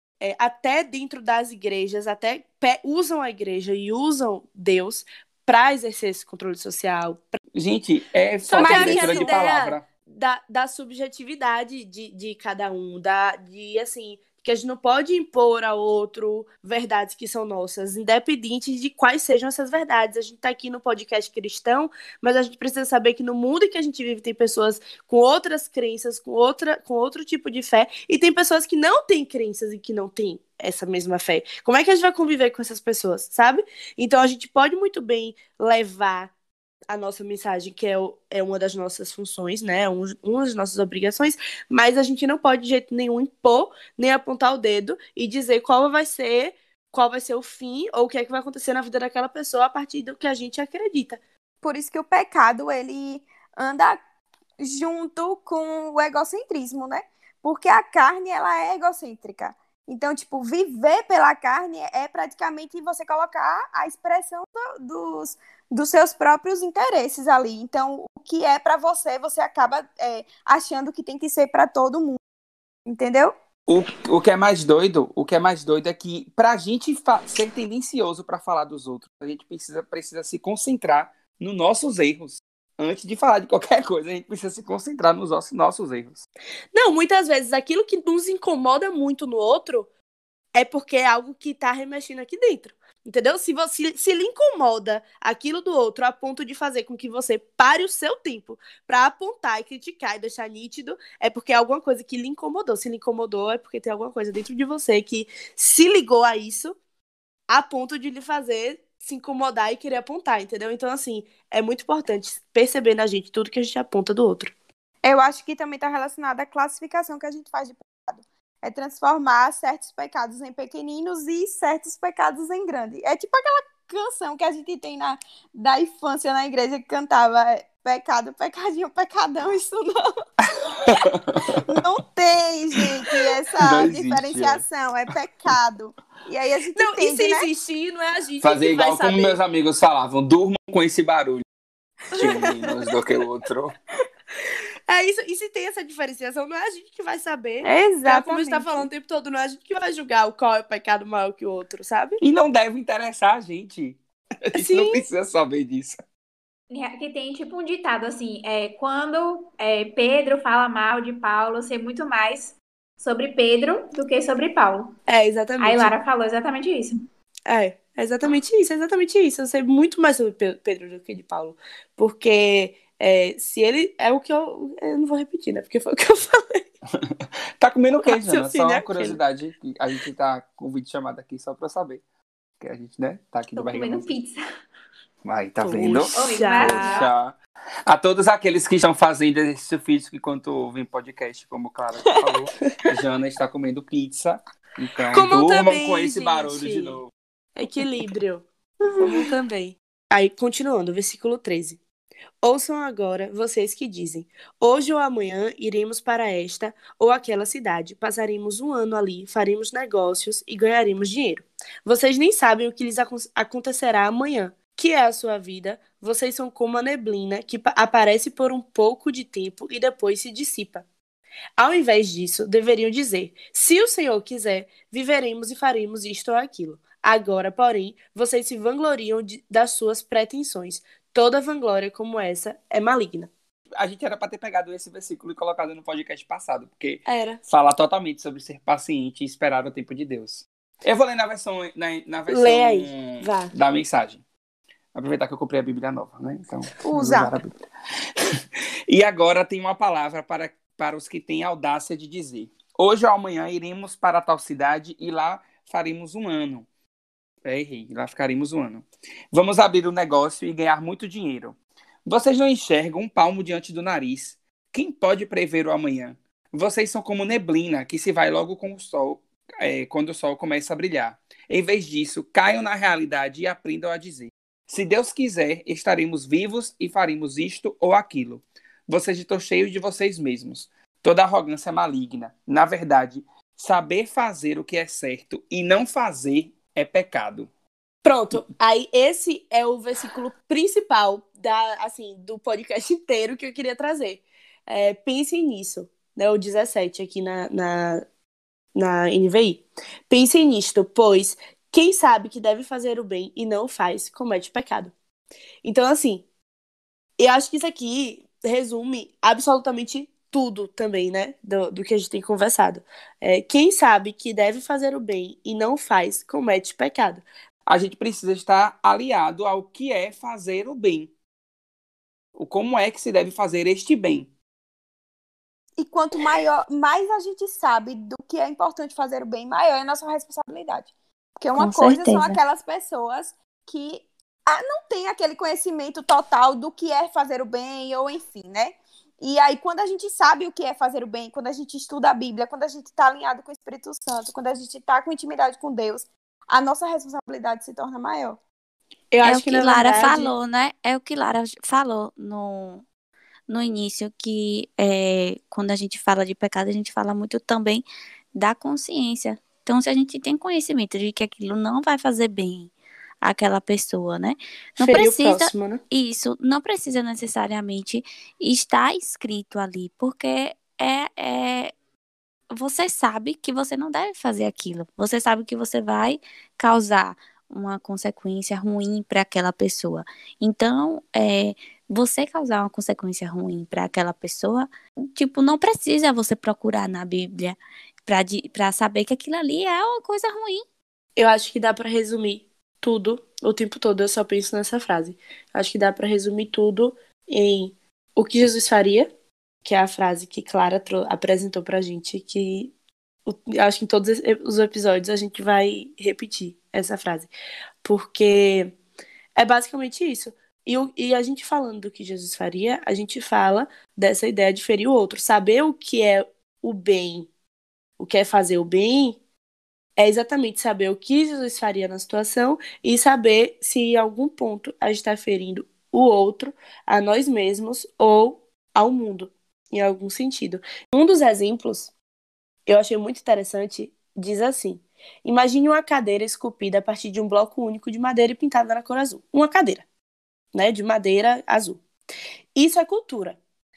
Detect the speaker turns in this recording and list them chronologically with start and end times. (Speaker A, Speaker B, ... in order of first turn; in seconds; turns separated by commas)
Speaker A: 0.2-7.4, Speaker B: 7.5-9.8, Speaker A: 8.5-36.3, Speaker C: 8.5-9.5, Speaker A: 36.9-51.2, Speaker C: 51.6-54.0, Speaker C: 54.6-72.2, Speaker C: 72.8-73.3, Speaker B: 73.7-86.2, Speaker A: 86.7-89.9, Speaker A: 90.5-106.8, Speaker A: 107.5-114.5, Speaker C: 115.0-130.0, Speaker B: 130.8-131.6, Speaker C: 131.6-137.5, Speaker B: 133.6-134.6, Speaker A: 136.7-139.4, Speaker B: 138.4-141.4, Speaker B: 142.1-143.7, Speaker A: 144.9-152.2, Speaker C: 147.6-148.8, Speaker B: 152.2-156.0, Speaker A: 154.6-155.1, Speaker D: 156.7-164.9, Speaker A: 165.1-166.0, Speaker D: 165.6-167.0, Speaker A: 167.5-176.7, Speaker B: 177.1-182.0, Speaker A: 178.0-179.2, Speaker B: 182.6-184.1, Speaker D: 183.5-184.4, Speaker B: 185.2-187.3, Speaker A: 185.6-187.1, Speaker D: 186.1-187.1, Speaker B: 187.9-197.1, Speaker A: 195.1-197.0, Speaker A: 197.6-198.4, Speaker A: 199.0-201.8, Speaker A: 202.4-220.8, Speaker A: 221.6-233.3, Speaker B: 233.8-244.2, Speaker A: 237.1-237.4, Speaker A: 242.3-243.5, Speaker B: 244.9-247.5, Speaker C: 246.8-247.4, Speaker B: 248.9-256.6, Speaker B: 257.4-287.5, Speaker A: 288.0-298.0, Speaker A: 298.7-304.9, Speaker A: 305.6-306.2, Speaker A: 307.2-317.2, Speaker B: 317.7-321.1, Speaker B: 322.4-324.3, Speaker C: 325.8-348.4, Speaker E: 331.6-332.4, Speaker A: 349.1-350.3, Speaker E: 349.2-352.8, Speaker E: 353.5-371.7, Speaker A: 364.8-365.8, Speaker E: 372.5-390.6, Speaker A: 391.2-399.1, Speaker A: 399.6-402.7, Speaker A: 403.2-407.3, Speaker A: 407.8-408.7, Speaker A: 409.4-417.3, Speaker A: 418.0-419.2, Speaker A: 420.0-431.9, Speaker A: 432.7-439.8, Speaker A: 440.5-441.8, Speaker A: 442.5-443.4